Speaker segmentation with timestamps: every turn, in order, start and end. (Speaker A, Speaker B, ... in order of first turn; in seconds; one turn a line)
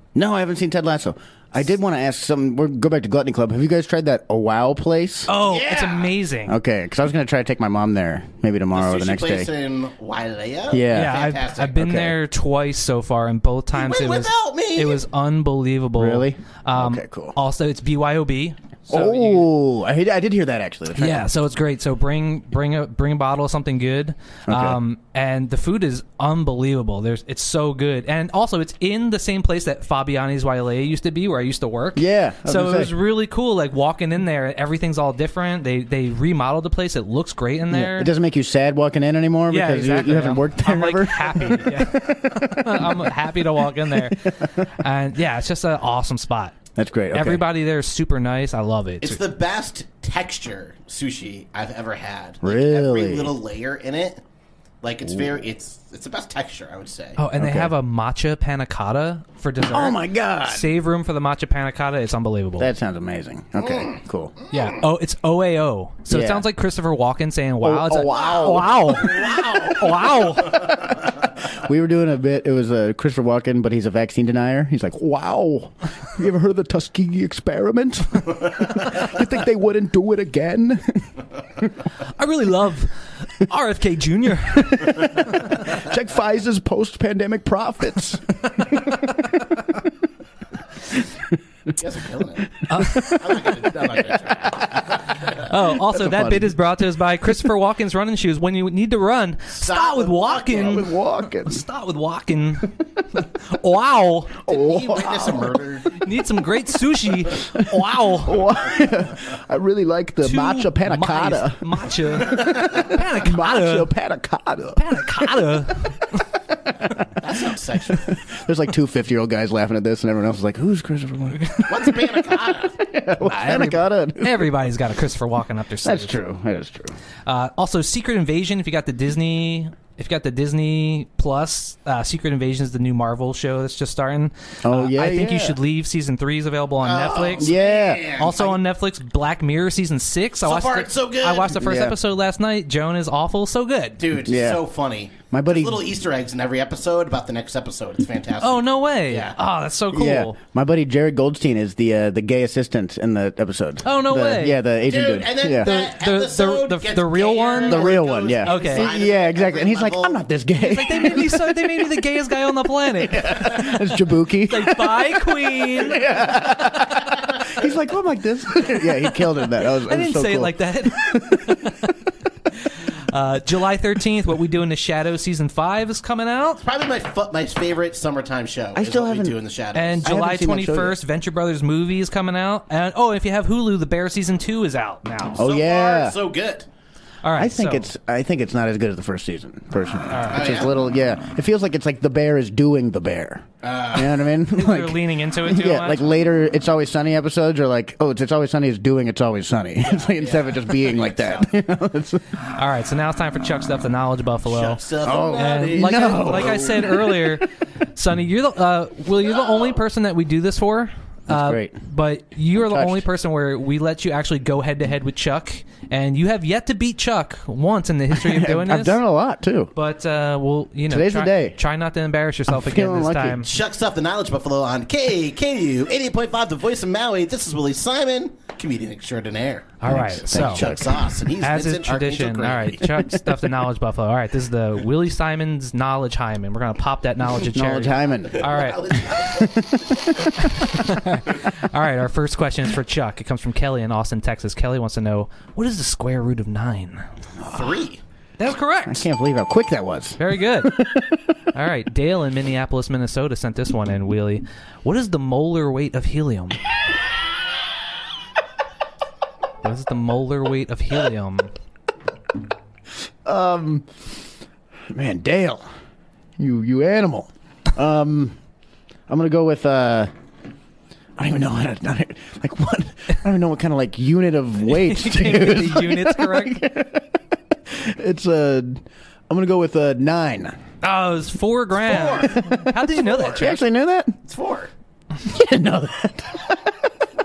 Speaker A: 0.1-5.3
Speaker B: 5.3-6.6
Speaker C: 5.4-6.1
Speaker A: 6.5-9.5
Speaker C: 8.7-11.8
Speaker A: 10.7-11.2
Speaker B: 10.9-19.5
Speaker A: 11.7-12.2
Speaker C: 13.7-15.0
Speaker A: 16.0-17.4
Speaker A: 18.9-21.3
Speaker B: 20.9-38.1
Speaker A: 24.5-24.8
Speaker A: 31.9-32.9
Speaker A: 37.7-43.1
Speaker B: 39.5-46.5
Speaker A: 43.9-44.6
Speaker A: 46.8-47.5
Speaker B: 47.1-49.2
Speaker C: 49.0-54.2
Speaker A: 52.4-53.4
Speaker C: 54.8-57.2
Speaker B: 57.2-62.7
Speaker A: 57.3-57.7
Speaker A: 59.7-60.7
Speaker A: 62.6-64.3
Speaker C: 63.6-64.6
Speaker B: 64.5-70.7
Speaker A: 66.1-66.5
Speaker A: 67.6-69.3
Speaker C: 68.1-69.8
Speaker A: 71.5-81.1
Speaker B: 82.0-85.7
Speaker A: 85.1-89.4
Speaker C: 91.7-95.4
Speaker B: 92.7-93.3
Speaker A: 92.7-94.3
Speaker B: 95.3-104.3
Speaker A: 95.8-96.5
Speaker C: 99.5-100.9
Speaker A: 100.5-101.6
Speaker A: 104.5-105.6
Speaker C: 104.5-105.9
Speaker B: 106.0-108.5
Speaker A: 107.5-115.5
Speaker B: 110.2-113.9
Speaker B: 114.8-116.2
Speaker C: 117.2-118.2
Speaker A: 117.9-124.5
Speaker B: 121.4-121.7
Speaker C: 121.7-122.8
Speaker B: 123.2-126.2
Speaker A: 125.8-126.9
Speaker B: 127.2-137.6
Speaker A: 134.6-135.6
Speaker C: 136.8-138.6
Speaker A: 137.4-138.1
Speaker B: 138.2-144.0
Speaker C: 140.4-141.5
Speaker A: 141.5-142.0
Speaker C: 144.0-149.4
Speaker A: 144.2-144.6
Speaker A: 145.3-145.9
Speaker B: 148.4-150.4
Speaker A: 149.9-155.7
Speaker B: 153.8-154.6
Speaker C: 154.9-160.2
Speaker B: 155.6-157.9
Speaker A: 157.7-161.9
Speaker B: 158.4-158.9
Speaker B: 160.6-163.8
Speaker A: 163.0-171.8
Speaker B: 164.5-166.0
Speaker B: 169.9-171.9
Speaker B: 172.7-176.6
Speaker C: 176.6-180.1
Speaker A: 178.8-179.3
Speaker B: 179.7-185.4
Speaker A: 180.0-181.0
Speaker A: 185.4-186.2
Speaker C: 185.4-186.7
Speaker B: 187.2-187.9
Speaker A: 187.3-202.2
Speaker B: 190.1-190.6
Speaker C: 190.3-190.7
Speaker C: 193.6-194.2
Speaker B: 194.5-196.0
Speaker C: 199.8-201.5
Speaker B: 202.5-204.8
Speaker C: 204.4-206.7
Speaker A: 205.0-207.3
Speaker B: 205.3-219.0
Speaker C: 209.4-209.7
Speaker A: 211.3-211.8
Speaker A: 212.5-213.1
Speaker A: 218.1-219.7
Speaker B: 219.8-223.5
Speaker A: 220.9-221.6
Speaker A: 222.5-223.4
Speaker C: 223.4-233.0
Speaker B: 229.8-230.7
Speaker A: 229.9-230.9
Speaker B: 231.4-238.8
Speaker A: 237.4-240.2
Speaker C: 238.4-239.7
Speaker B: 240.4-247.0
Speaker C: 247.5-248.0
Speaker B: 248.4-249.0
Speaker A: 248.9-251.1
Speaker B: 250.2-250.8
Speaker B: 251.5-256.6
Speaker B: 259.6-261.5
Speaker A: 263.2-263.9
Speaker A: 264.9-265.7
Speaker A: 266.4-268.4
Speaker A: 269.1-270.1
Speaker A: 271.2-277.1
Speaker B: 274.7-276.6
Speaker A: 277.7-280.6
Speaker B: 280.8-283.5
Speaker C: 281.8-283.5
Speaker A: 283.3-284.1
Speaker C: 284.2-284.7
Speaker A: 285.2-286.8